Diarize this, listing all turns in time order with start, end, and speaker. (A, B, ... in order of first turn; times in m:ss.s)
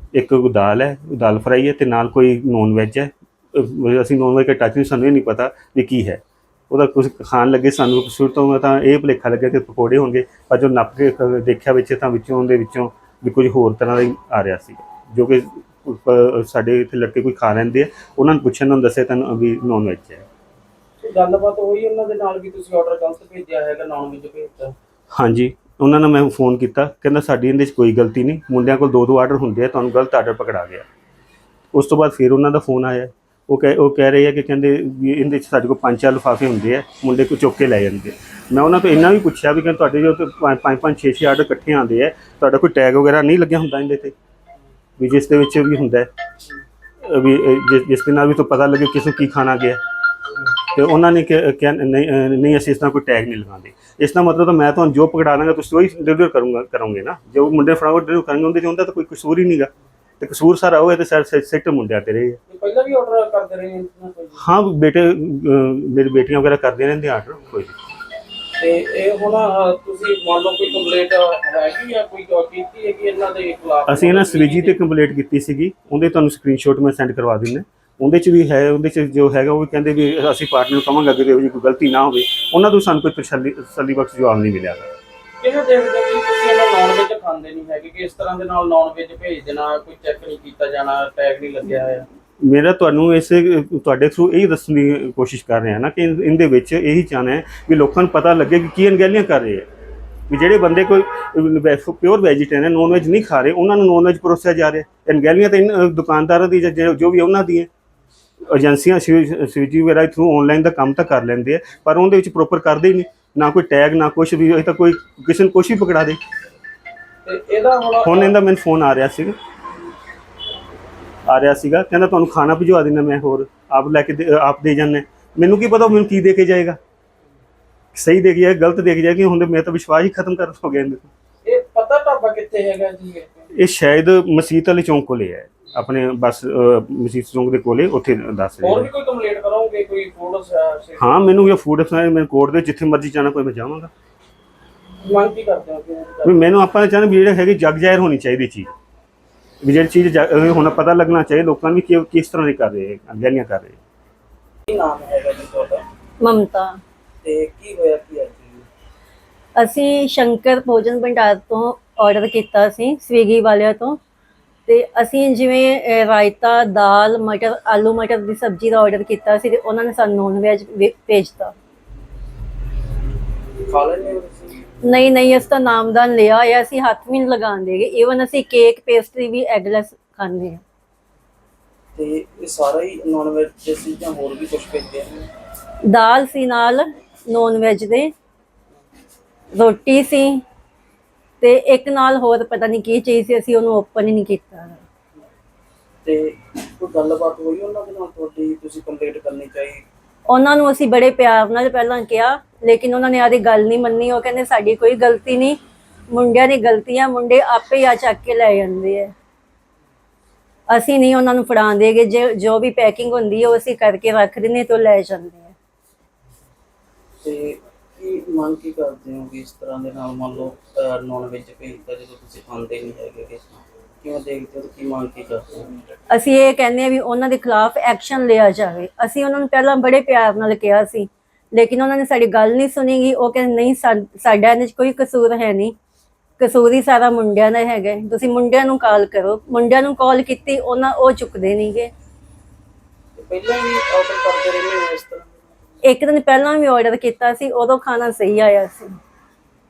0:00.1-0:20.3 A
0:21.0-0:24.8 B
0:25.2-0:30.9 A
0:31.7-0:44.1 A
0:45.0-0:46.1 A
0:47.0-0:49.8 A
0:50.7-1:02.4 A
1:02.5-1:04.4 B
1:04.4-1:07.8 A
1:08.6-1:14.8 B
1:13.9-1:24.9 A
1:25.4-1:32.1 B
1:32.4-1:39.7 A
1:40.3-1:47.7 A
1:48.5-1:56.2 A
1:57.2-1:58.4 B
1:58.0-1:59.3 A
2:01.3-2:06.8 A
2:07.9-2:11.1 A
2:11.4-2:13.5 B
2:13.5-2:18.9 A
2:18.6-2:21.5 B
2:21.0-2:23.9 A
2:25.0-2:26.4 B
2:26.2-2:28.7 A
2:29.6-2:33.8 A
2:34.7-2:35.8 B
2:36.2-2:36.8 C
2:37.2-2:38.7 B
2:39.6-2:44.0 C
2:44.7-2:51.5 C
2:53.6-2:54.6 B
2:54.8-3:00.6 C
3:02.0-3:05.3 B
3:05.9-3:08.1 C
3:09.5-3:10.4 C
3:11.4-3:14.8 C
3:16.0-3:19.8 B
3:20.3-3:25.6 C
3:26.1-3:29.1 C
3:30.7-3:35.5 C
3:37.2-3:45.8 B
3:46.1-3:55.8 C
3:56.4-4:01.9 C
4:03.2-4:05.5 B
4:05.8-4:09.0 C